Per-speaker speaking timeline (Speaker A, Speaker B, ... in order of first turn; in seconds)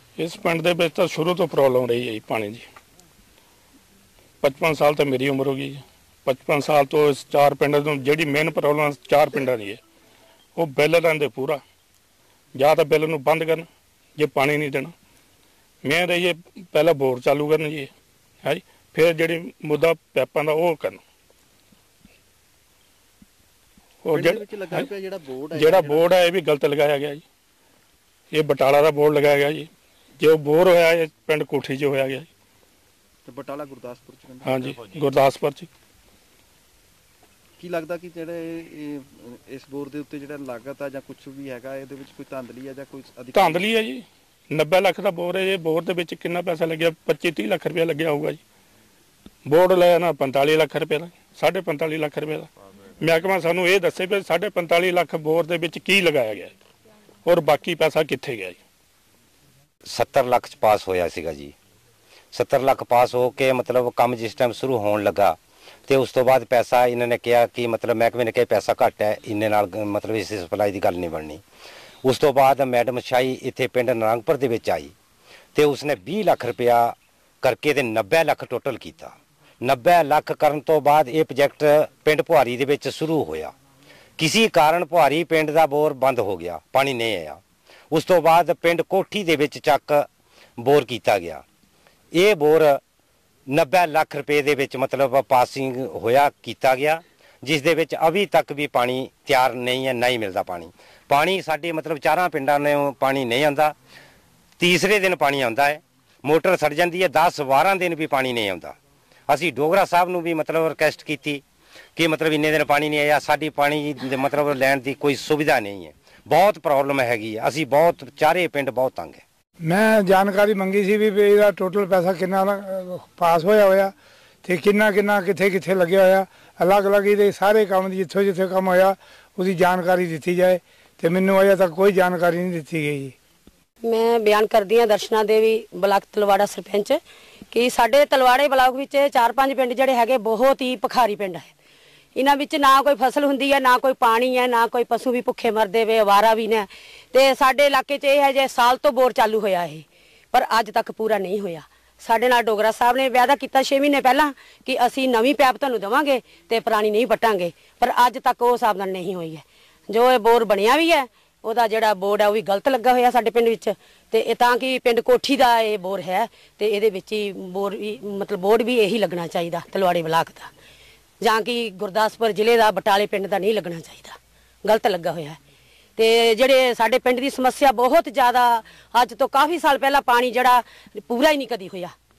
Speaker A: 0.2-2.7, 4.4-9.8, 10.6-11.6, 12.6-14.9, 15.8-17.9, 18.4-21.0, 24.0-24.9, 25.5-27.2, 28.3-32.3, 34.4-35.7, 43.3-48.4, 49.5-52.5, 53.0-56.5, 57.2-58.6
Speaker B: 24.1-26.1, 33.3-34.8, 37.6-43.7
Speaker C: 59.9-61.5, 62.3-71.4, 72.0-74.9, 75.5-83.5, 84.2-90.1, 90.6-91.4, 92.2-92.8, 93.5-103.8, 104.6-108.8, 109.3-111.4, 112.0-119.2
Speaker D: 119.6-123.9, 124.5-133.2
Speaker E: 133.8-137.0, 137.5-141.5, 142.2-170.5, 171.2-175.4, 176.0-181.9